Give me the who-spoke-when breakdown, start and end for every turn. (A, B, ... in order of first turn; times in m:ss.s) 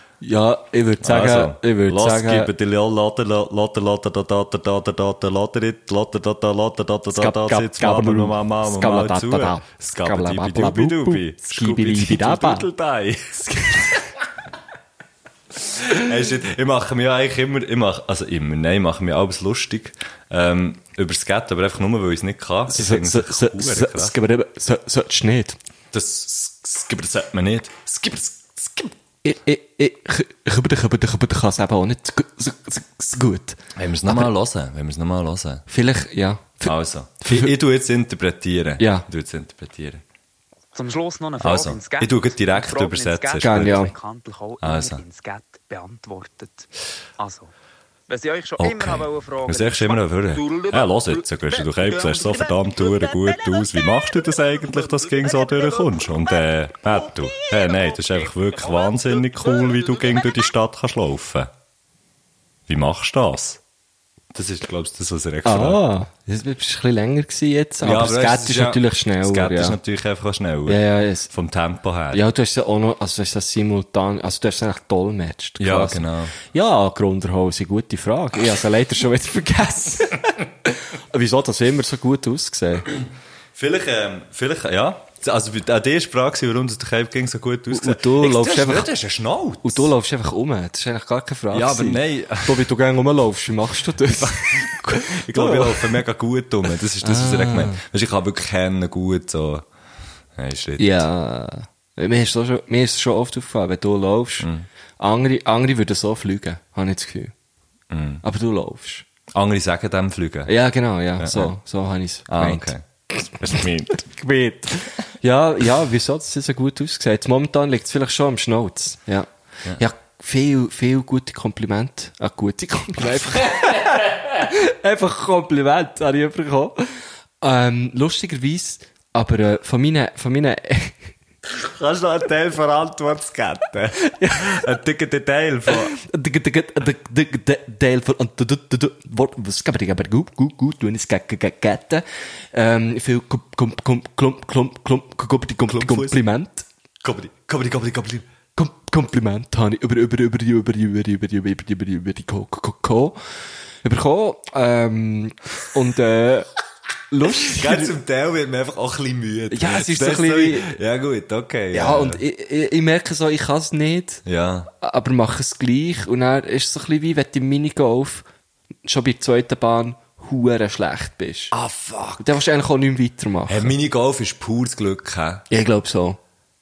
0:00.2-0:02.5 A
0:01.0-0:14.0 B
0:07.1-0:12.7 A
0:13.4-0:14.0 A
0:15.6-0:24.1 B
0:22.7-0:25.6 A
0:25.9-0:28.9 B
0:29.2-0:34.3 A
0:33.8-0:35.6 B
0:35.7-0:37.5 A
0:36.6-0:40.0 B
0:38.8-0:39.0 A
0:40.7-0:47.5 C
0:41.4-0:43.8 B
0:43.4-0:43.9 A
0:44.6-0:45.0 B
0:48.1-0:54.2 C
0:48.6-1:01.5 B
0:54.8-0:56.2 C
0:57.0-1:00.3 C
1:02.7-1:03.6 B
1:04.3-1:05.8 B
1:05.4-1:09.8 A
1:07.8-1:12.2 B
1:10.6-1:11.3 A
1:12.1-1:22.9 A
1:15.6-1:16.3 B
1:23.5-1:29.9 B
1:27.7-1:28.9 A
1:29.6-1:35.9 A
1:31.5-1:32.7 B
1:34.2-1:39.6 B
1:37.0-1:37.8 A
1:40.4-1:41.0 B
1:40.8-1:44.5 A
1:44.4-1:44.7 B
1:45.0-1:47.3 A
1:47.9-1:48.2 B
1:48.2-1:49.0 A
1:49.3-1:50.5 B
1:50.4-1:52.7 A
1:51.2-1:51.5 B
1:52.3-1:54.2 B
1:54.1-2:11.1 A
2:11.4-2:15.9 B
2:14.0-2:14.6 A
2:15.7-2:26.6 A
2:25.6-2:26.2 B
2:27.0-2:28.2 B
2:28.5-2:33.2 A
2:33.8-2:36.5 A
2:37.1-2:37.9 A
2:37.4-2:42.2 B
2:39.5-2:40.8 A
2:41.7-2:44.2 A
2:44.2-2:44.7 B
2:44.8-2:48.2 A
2:48.8-2:51.5 A
2:51.5-2:52.4 B
2:52.2-2:53.7 A
2:53.5-2:55.4 B
2:55.5-2:56.2 A